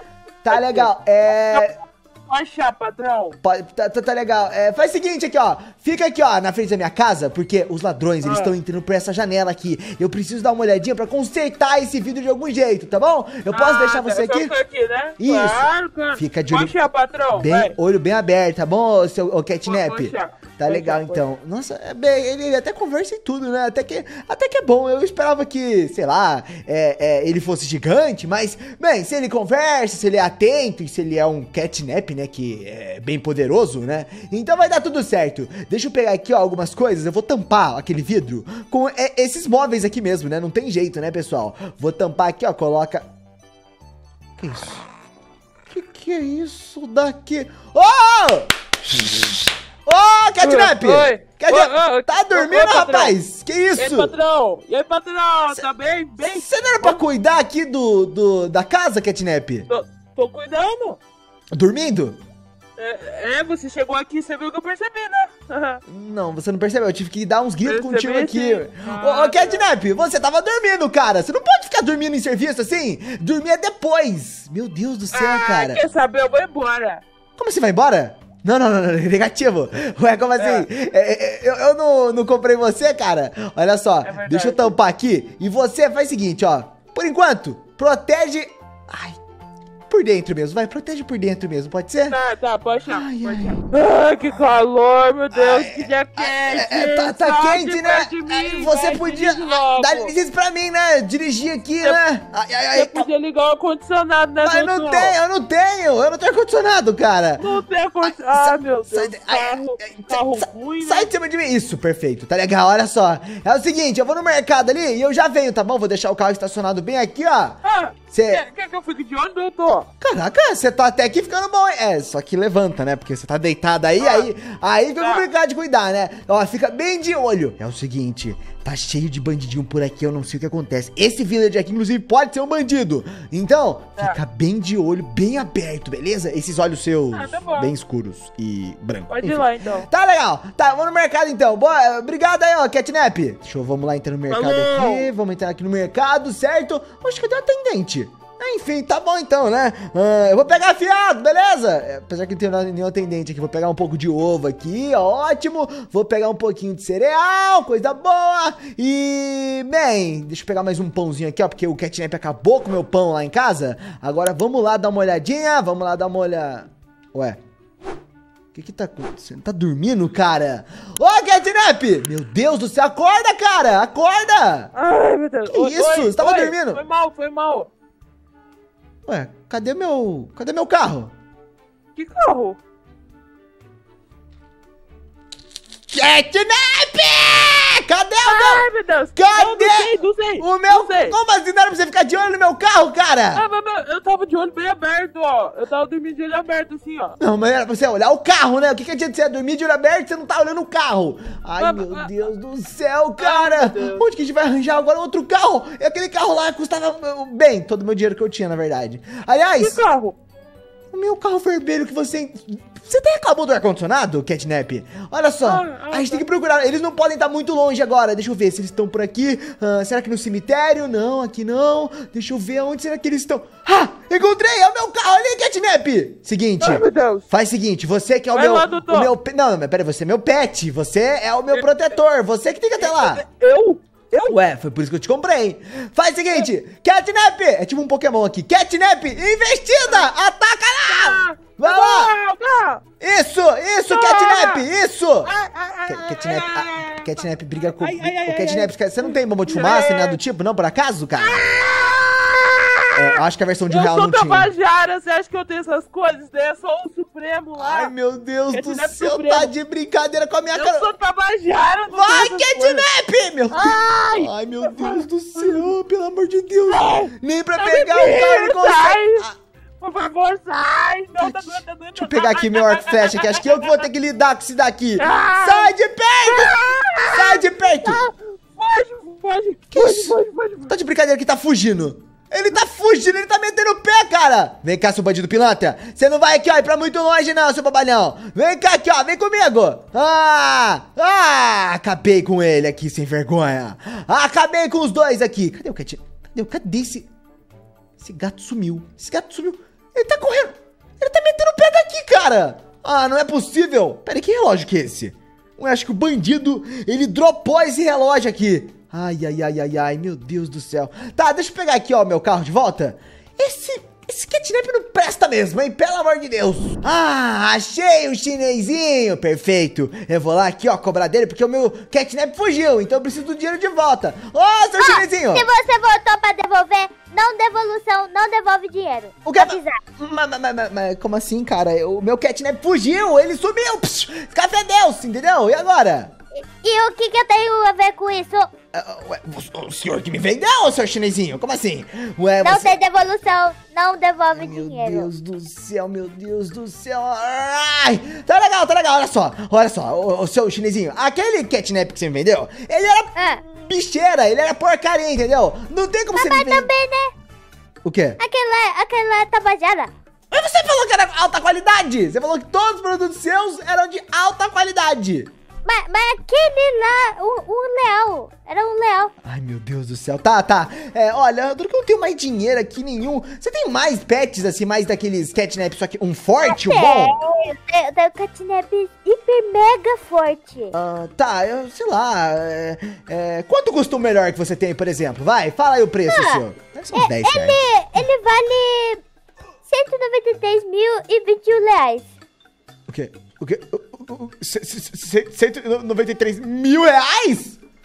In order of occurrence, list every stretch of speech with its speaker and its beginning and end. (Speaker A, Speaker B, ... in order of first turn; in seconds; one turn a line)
Speaker A: 0.4-1.8
Speaker B: 0.5-3.4
Speaker A: 3.4-14.5
Speaker B: 8.2-8.5
Speaker B: 13.5-17.7
Speaker A: 15.2-16.7
Speaker A: 17.3-43.0
Speaker B: 19.6-21.2
Speaker A: 44.4-44.9
Speaker A: 45.7-54.1
Speaker B: 50.4-53.2
Speaker B: 53.8-57.0
Speaker A: 56.2-59.7
Speaker B: 59.7-61.0
Speaker A: 61.5-62.2
Speaker B: 62.8-65.8
Speaker A: 65.9-75.8
Speaker B: 67.6-69.7
Speaker B: 75.1-77.0
Speaker A: 77.4-89.2
Speaker B: 80.3-80.7
Speaker B: 84.0-84.7
Speaker A: 89.9-92.2
Speaker B: 92.1-100.2
Speaker A: 92.8-93.6
Speaker A: 95.3-103.1
Speaker B: 102.7-105.2
Speaker A: 104.4-117.6
Speaker B: 107.4-111.1
Speaker B: 117.6-119.9
Speaker A: 118.1-118.4
Speaker A: 120.0-167.4
Speaker B: 124.0-124.3
Speaker B: 125.0-125.3
Speaker B: 137.1-137.7
Speaker B: 139.1-139.9
Speaker B: 144.3-145.1
Speaker A: 168.5-174.7
Speaker B: 174.7-177.7
Speaker A: 175.5-176.8
Speaker A: 179.1-181.1
Speaker B: 181.9-182.6
Speaker A: 185.9-193.4
Speaker B: 188.2-191.2
Speaker B: 193.3-197.2
Speaker A: 197.2-209.8
Speaker B: 201.6-202.2
Speaker B: 203.2-204.1
Speaker B: 209.6-210.2
Speaker A: 210.9-233.2
Speaker B: 215.4-216.2
Speaker B: 226.6-227.3
Speaker B: 228.3-229.1
Speaker B: 231.5-231.9
Speaker B: 232.8-234.4
Speaker A: 234.2-242.1
Speaker B: 240.9-242.8
Speaker A: 243.0-245.3
Speaker B: 243.9-244.7
Speaker B: 245.2-250.2
Speaker A: 245.9-251.4
Speaker B: 251.2-257.9
Speaker A: 252.9-254.5
Speaker A: 257.6-260.9
Speaker B: 258.5-259.5
Speaker B: 260.5-262.9
Speaker A: 261.9-269.4
Speaker B: 263.5-265.7
Speaker B: 266.7-269.3
Speaker B: 269.8-273.9
Speaker A: 271.2-278.0
Speaker B: 275.0-275.7
Speaker B: 276.2-280.7
Speaker A: 279.7-280.2
Speaker A: 280.7-297.1
Speaker A: 298.0-325.4
Speaker C: 324.8-329.8
Speaker A: 329.2-336.1
Speaker C: 336.4-338.5
Speaker A: 338.7-342.8
Speaker C: 342.4-345.1
Speaker A: 344.3-356.7
Speaker C: 353.1-353.4
Speaker C: 356.1-357.1
Speaker A: 357.8-358.2
Speaker C: 358.2-359.9
Speaker A: 360.3-365.3
Speaker C: 365.6-369.1
Speaker A: 369.2-377.1
Speaker C: 376.4-380.7
Speaker A: 380.7-388.0
Speaker C: 386.1-389.0
Speaker C: 389.7-392.1
Speaker A: 392.9-397.6